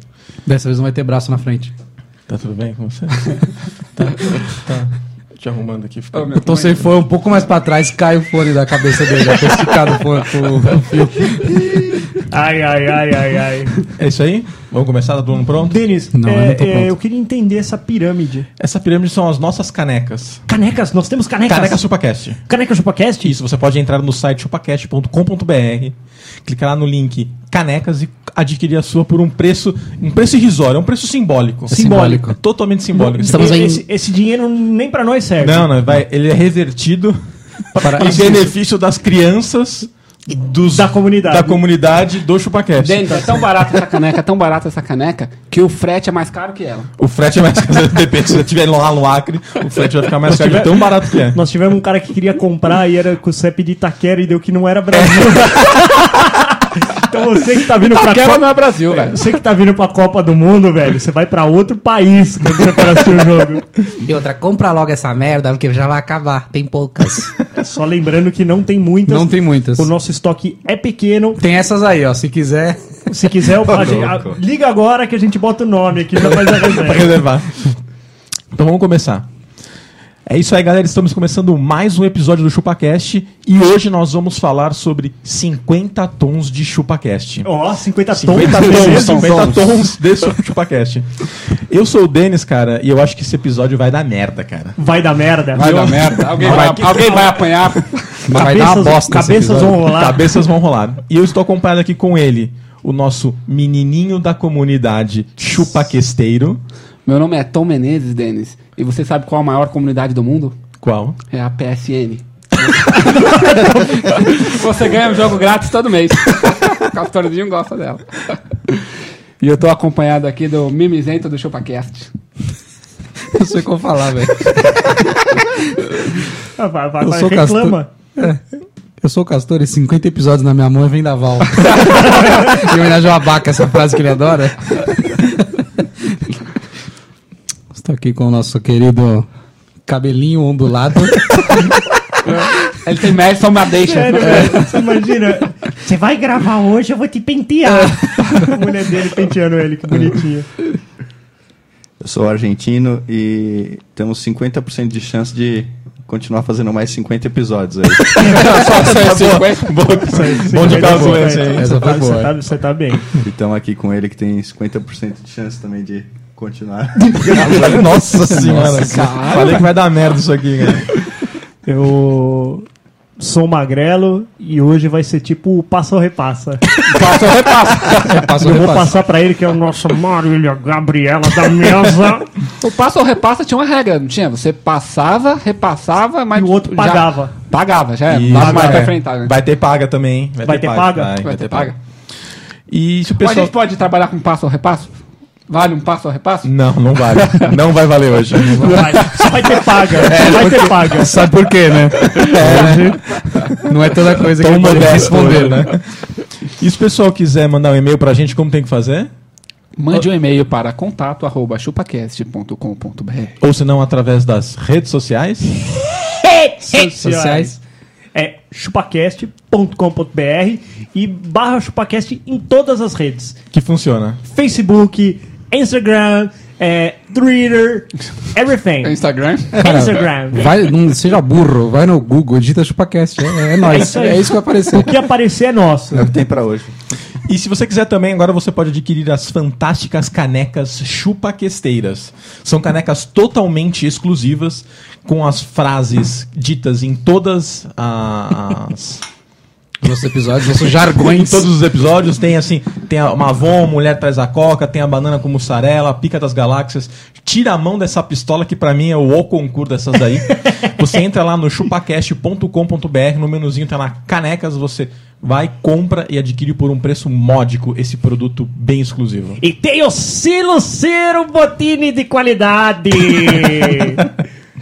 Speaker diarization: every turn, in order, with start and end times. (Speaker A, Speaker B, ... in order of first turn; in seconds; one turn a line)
Speaker A: 0.5-1.7
Speaker B: 2.3-3.4
Speaker B: 4.0-6.3
Speaker C: 6.1-6.8
Speaker A: 6.3-11.9
Speaker D: 12.3-13.8
Speaker B: 14.0-15.8
Speaker D: 15.6-18.5
Speaker A: 16.1-16.9
Speaker B: 18.6-20.4
Speaker D: 20.5-21.8
Speaker B: 21.4-22.4
Speaker D: 22.4-23.4
Speaker B: 23.2-33.5
Speaker A: 31.7-32.4
Speaker D: 31.7-32.3
Speaker D: 32.9-35.8
Speaker A: 33.3-33.8
Speaker B: 35.4-43.3
Speaker A: 37.8-38.5
Speaker D: 40.7-41.6
Speaker C: 42.8-46.9
Speaker B: 47.0-51.4
Speaker D: 50.2-63.6
Speaker C: 57.8-59.2
Speaker A: 64.0-67.3
Speaker D: 67.5-71.4
Speaker A: 69.1-69.9
Speaker A: 71.4-72.8
Speaker D: 73.1-77.2
Speaker E: 73.6-74.4
Speaker B: 76.3-77.7
Speaker B: 78.5-79.3
Speaker B: 80.2-87.5
Speaker D: 87.4-89.6
Speaker B: 88.1-94.7
Speaker C: 88.4-89.5
Speaker D: 94.8-96.2
Speaker C: 95.5-98.0
Speaker B: 96.2-97.3
Speaker A: 98.3-99.9
Speaker D: 98.3-100.3
Speaker B: 99.9-106.6
Speaker C: 107.0-110.5
Speaker B: 110.8-111.2
Speaker C: 111.3-118.8
Speaker C: 119.4-122.1
Speaker A: 123.3-125.1
Speaker D: 126.5-127.9
Speaker A: 127.0-128.4
Speaker A: 129.0-135.4
Speaker A: 137.7-139.3
Speaker A: 139.9-141.7
Speaker C: 142.4-144.7
Speaker D: 143.8-150.5
Speaker A: 144.2-144.6
Speaker E: 152.0-158.3
Speaker C: 158.1-159.9
Speaker B: 158.3-161.7
Speaker D: 160.0-163.0
Speaker A: 160.6-162.3
Speaker E: 163.2-168.1
Speaker B: 167.2-170.8
Speaker A: 167.4-169.1
Speaker C: 168.6-169.7
Speaker D: 171.6-172.6
Speaker D: 173.2-176.7
Speaker C: 176.8-178.2
Speaker A: 178.0-178.9
Speaker D: 178.3-182.3
Speaker C: 182.6-189.4
Speaker D: 186.3-187.3
Speaker B: 188.1-191.8
Speaker D: 188.3-188.9
Speaker D: 190.4-191.1
Speaker C: 191.2-191.8
Speaker B: 192.7-193.5
Speaker C: 193.2-194.9
Speaker C: 195.5-197.4
Speaker B: 196.4-199.4
Speaker D: 198.6-201.3
Speaker A: 199.9-203.0
Speaker D: 202.2-203.0
Speaker B: 202.2-202.8
Speaker A: 203.5-205.7
Speaker B: 204.2-205.8
Speaker B: 206.5-209.1
Speaker C: 209.8-213.3
Speaker B: 213.4-215.7
Speaker D: 216.1-217.6
Speaker A: 217.0-217.6
Speaker D: 218.1-223.3
Speaker B: 223.5-224.2
Speaker D: 224.2-229.0
Speaker C: 228.8-229.6
Speaker A: 229.5-235.0
Speaker D: 229.5-230.5
Speaker D: 233.6-236.1
Speaker E: 235.9-236.7
Speaker B: 237.2-249.0
Speaker A: 249.8-251.5
Speaker B: 250.9-269.4
Speaker D: 269.4-274.1